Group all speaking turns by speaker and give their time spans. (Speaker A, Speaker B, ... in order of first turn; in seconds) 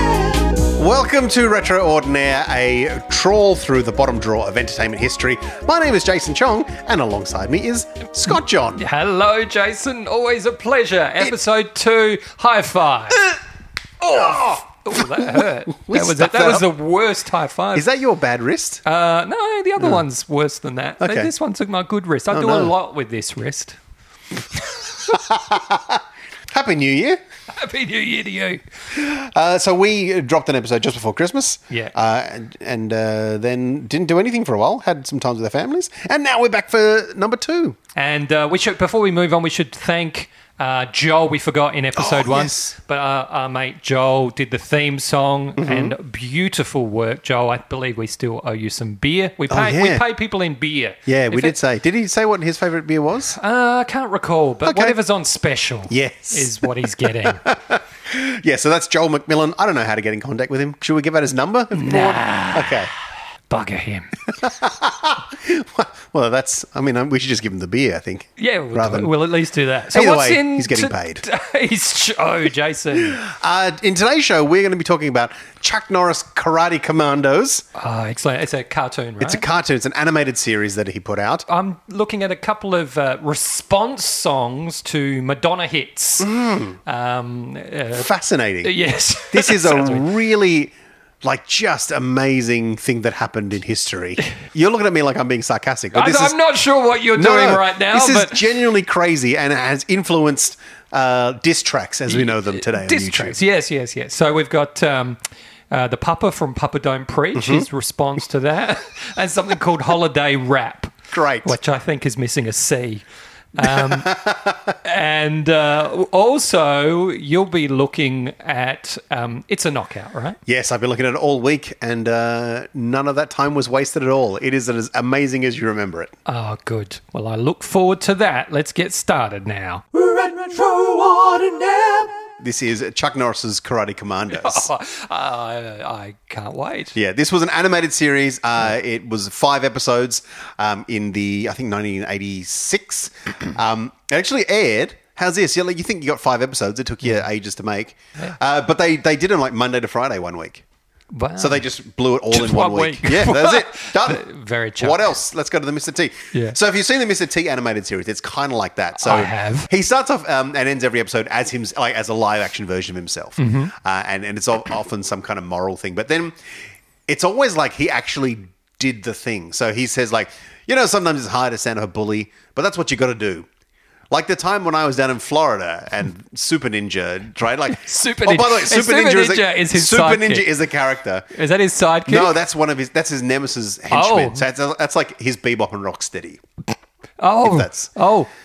Speaker A: 0.8-8.8, 14.1-16.7, 17.8-18.8, 21.0-21.3, 22.3-22.7, 25.1-27.2, 28.9-37.8, 42.0-42.7, 45.6-46.0, 49.5-50.0, 51.1-53.4, 54.6-55.0, 55.9-56.7, 57.2-62.9, 64.3-69.1, 69.9-71.2, 73.0-77.7, 79.2-81.5, 86.2-86.8, 87.9-88.8, 89.3-96.4, 97.1-103.4, 107.3-107.7, 111.1-111.6, 113.6-114.8, 120.5-126.1, 132.4-134.7, 136.9-150.6, 151.4-154.2, 154.8-166.4, 167.1-173.5, 174.1-181.3, 182.1-186.4, 187.4-187.9
Speaker B: 8.8-13.2, 14.0-17.9, 18.9-23.8, 27.6-28.6, 38.0-51.6, 53.4-57.4, 61.7-62.8, 63.5-64.1, 68.4-73.2, 77.8-79.5, 81.5-86.3, 86.9-88.1, 88.6-90.1, 95.9-98.4, 102.1-105.2, 105.7-113.0, 113.6-114.2, 114.8-120.4, 126.3-129.9, 134.3-137.0, 151.1-151.7, 152.3-155.1, 159.0-159.7, 163.4-163.7, 177.7-180.5, 181.3-182.3, 183.9-184.4, 187.2-188.3